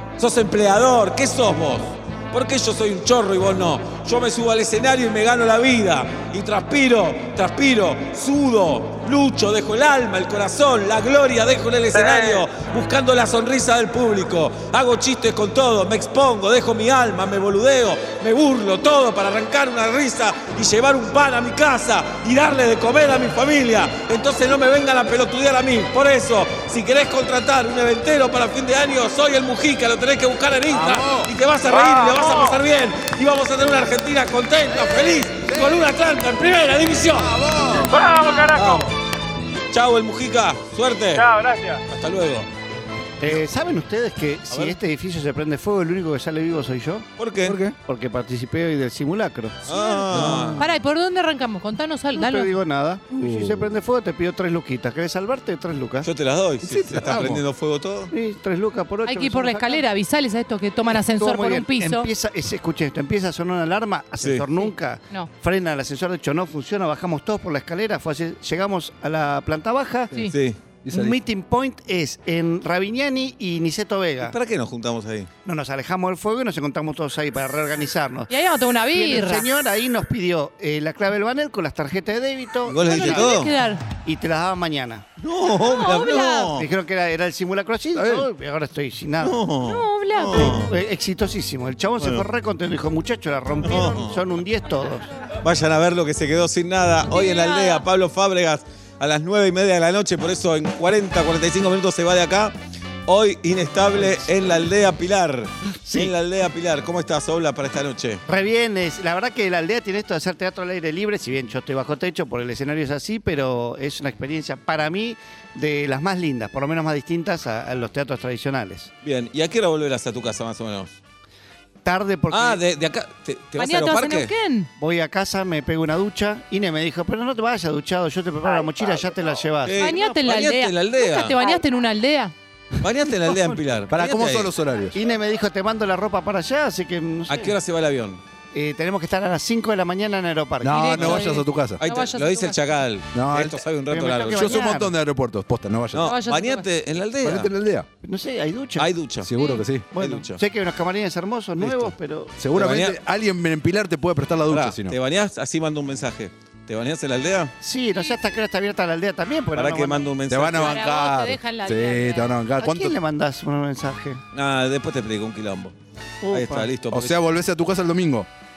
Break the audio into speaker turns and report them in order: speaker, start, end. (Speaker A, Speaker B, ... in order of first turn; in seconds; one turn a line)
Speaker A: 0.2-37.4
Speaker B: 11.9-12.4
Speaker C: 30.7-31.3
Speaker B: 31.7-32.6
Speaker C: 34.7-35.9
Speaker C: 37.1-38.0
Speaker B: 37.9-38.9
Speaker A: 38.6-38.9
Speaker A: 39.7-41.2
Speaker B: 41.1-41.8
Speaker A: 41.9-42.5
Speaker D: 43.2-47.1
Speaker A: 44.5-44.8
Speaker A: 47.2-47.6
Speaker C: 47.4-47.8
Speaker D: 47.9-49.6
Speaker A: 49.6-50.6
Speaker E: 49.7-52.5
Speaker C: 50.1-50.6
Speaker D: 52.1-56.1
Speaker C: 53.2-53.7
Speaker A: 56.0-58.1
Speaker C: 56.6-57.4
Speaker D: 58.1-59.8
Speaker E: 59.1-62.1
Speaker D: 61.1-70.1
Speaker A: 64.2-64.5
Speaker A: 70.3-70.6
Speaker C: 70.8-71.2
Speaker D: 70.9-74.3
Speaker A: 74.2-75.3
Speaker D: 75.5-78.3
Speaker E: 78.3-79.5
Speaker D: 78.9-83.4
Speaker A: 82.7-83.5
Speaker E: 82.8-83.8
Speaker D: 84.0-85.1
Speaker A: 85.2-86.7
Speaker E: 85.7-86.5
Speaker D: 86.6-89.4
Speaker C: 88.0-88.3
Speaker A: 89.2-90.7
Speaker E: 89.6-90.5
Speaker D: 90.3-95.1
Speaker A: 92.0-92.2
Speaker A: 93.6-94.2
Speaker A: 95.4-102.5
Speaker E: 97.1-97.8
Speaker A: 103.1-108.2
Speaker D: 105.9-106.1
Speaker D: 108.3-118.9
Speaker A: 119.0-121.0
Speaker D: 121.8-122.6
Speaker A: 122.3-124.3
Speaker E: 123.6-124.7
Speaker D: 124.8-130.0
Speaker A: 129.6-131.4
Speaker E: 129.8-132.3
Speaker A: 132.8-134.5
Speaker C: 133.9-135.0
Speaker D: 134.9-137.5
Speaker A: 137.3-138.2
Speaker D: 138.5-141.3
Speaker C: 140.6-141.8
Speaker E: 140.7-142.6
Speaker A: 141.8-144.6
Speaker C: 143.1-143.6
Speaker D: 143.9-144.9
Speaker C: 144.2-146.1
Speaker A: 145.9-147.5
Speaker E: 146.0-146.7
Speaker C: 147.2-147.9
Speaker D: 148.0-148.9
Speaker A: 148.8-149.3
Speaker C: 149.2-149.9
Speaker E: 149.4-149.7
Speaker D: 149.9-152.3
Speaker A: 150.0-150.4
Speaker A: 151.6-151.9
Speaker C: 152.4-155.0
Speaker A: 152.5-153.0
Speaker A: 154.5-157.6
Speaker D: 157.6-160.1
Speaker A: 159.6-160.8
Speaker C: 160.3-163.0
Speaker E: 160.6-162.3
Speaker D: 162.6-164.2
Speaker A: 164.3-165.8
Speaker D: 166.2-166.7
Speaker A: 166.3-167.2
Speaker C: 166.9-168.3